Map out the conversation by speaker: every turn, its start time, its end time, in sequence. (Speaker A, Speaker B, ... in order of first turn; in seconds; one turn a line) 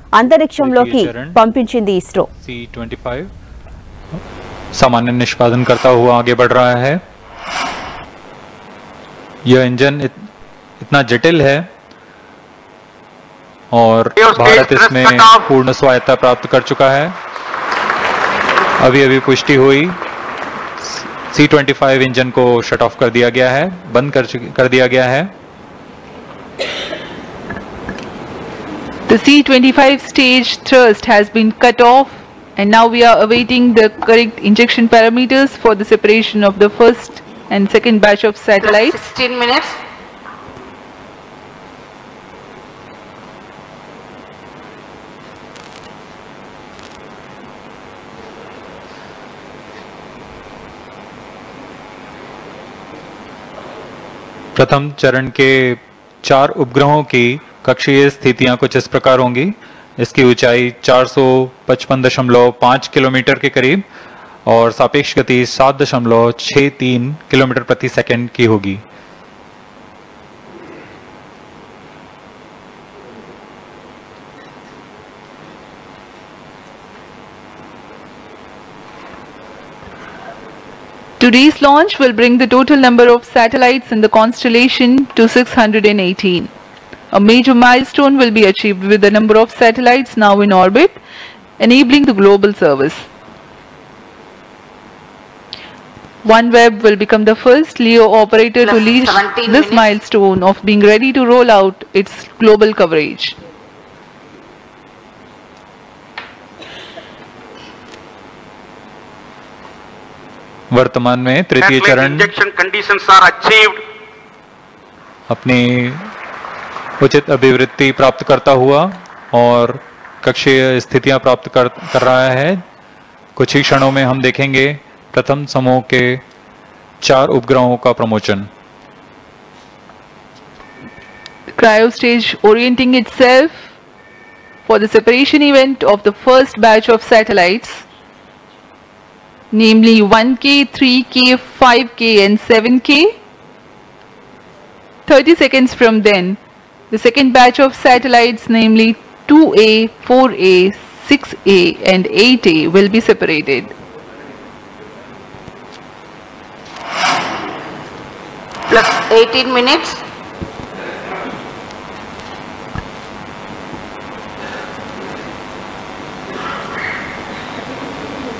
Speaker A: 0.2-2.3
Speaker B: 0.6-1.4
Speaker B: 2.4-3.3
Speaker B: 4.7-7.0
Speaker B: 9.4-10.1
Speaker B: 10.8-11.7
Speaker B: 13.7-17.2
Speaker C: 14.2-15.5
Speaker B: 18.8-20.0
Speaker B: 20.8-25.3
Speaker D: 29.1-39.0
Speaker E: 38.6-39.8
Speaker B: 54.5-63.8
Speaker B: 64.5-68.8
Speaker D: 81.2-86.5
Speaker D: 87.1-91.0
Speaker D: 91.6-93.1
Speaker D: 96.2-103.4
Speaker E: 98.6-99.8
Speaker B: 110.7-112.3
Speaker C: 111.6-113.8
Speaker B: 115.3-116.1
Speaker B: 117.0-122.6
Speaker B: 123.3-126.2
Speaker B: 127.0-128.5
Speaker D: 131.5-133.7
Speaker D: 134.7-137.8
Speaker D: 139.5-143.1
Speaker D: 145.1-146.4
Speaker D: 146.9-153.7
Speaker E: 158.7-160.0